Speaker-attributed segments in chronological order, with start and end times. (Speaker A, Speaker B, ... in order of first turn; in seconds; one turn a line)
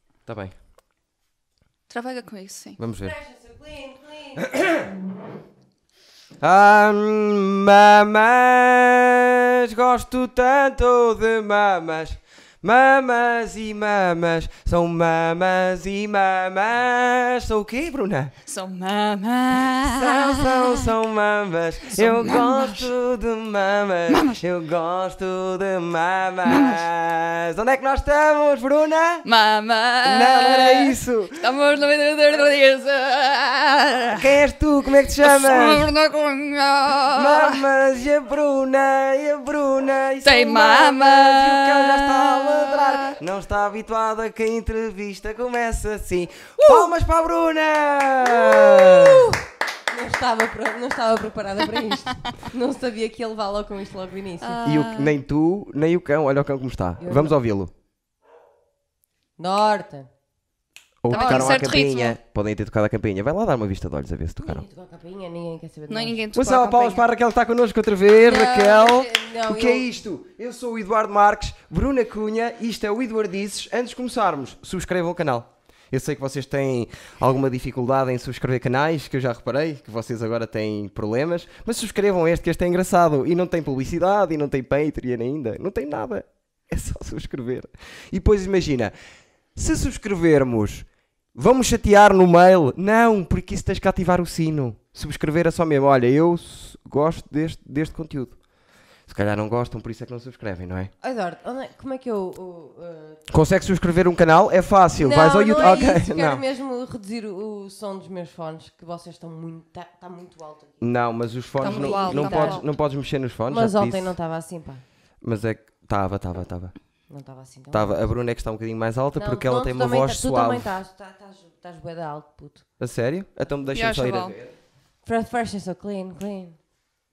Speaker A: 0.3-0.6
Speaker B: 1.9-2.8
Speaker A: 2.8-3.2
Speaker C: 3.0-4.6
Speaker A: 4.4-4.9
Speaker A: 6.4-18.3
Speaker B: 18.4-20.9
Speaker A: 19.6-29.2
Speaker B: 21.9-22.9
Speaker B: 24.1-24.4
Speaker B: 26.5-26.8
Speaker B: 29.2-34.3
Speaker A: 30.1-31.4
Speaker A: 34.1-35.9
Speaker B: 35.2-37.6
Speaker A: 37.1-49.3
Speaker B: 40.2-43.2
Speaker B: 46.6-46.9
Speaker B: 48.4-49.1
Speaker C: 48.9-54.7
Speaker B: 54.4-55.1
Speaker A: 54.6-57.7
Speaker C: 57.0-57.4
Speaker C: 59.4-60.1
Speaker A: 61.0-64.7
Speaker C: 61.1-61.6
Speaker B: 61.1-62.2
Speaker C: 64.4-66.2
Speaker B: 65.9-67.0
Speaker A: 66.3-88.9
Speaker C: 68.1-69.9
Speaker A: 89.5-98.4
Speaker A: 99.1-100.9
Speaker C: 101.0-103.2
Speaker A: 103.3-106.4
Speaker C: 105.0-110.8
Speaker A: 110.8-114.2
Speaker B: 111.6-112.7
Speaker C: 111.6-112.7
Speaker C: 113.5-114.8
Speaker A: 115.2-116.7
Speaker C: 117.1-118.1
Speaker A: 117.7-120.7
Speaker C: 119.2-122.7
Speaker A: 122.8-124.6
Speaker B: 123.7-124.3
Speaker C: 125.1-126.6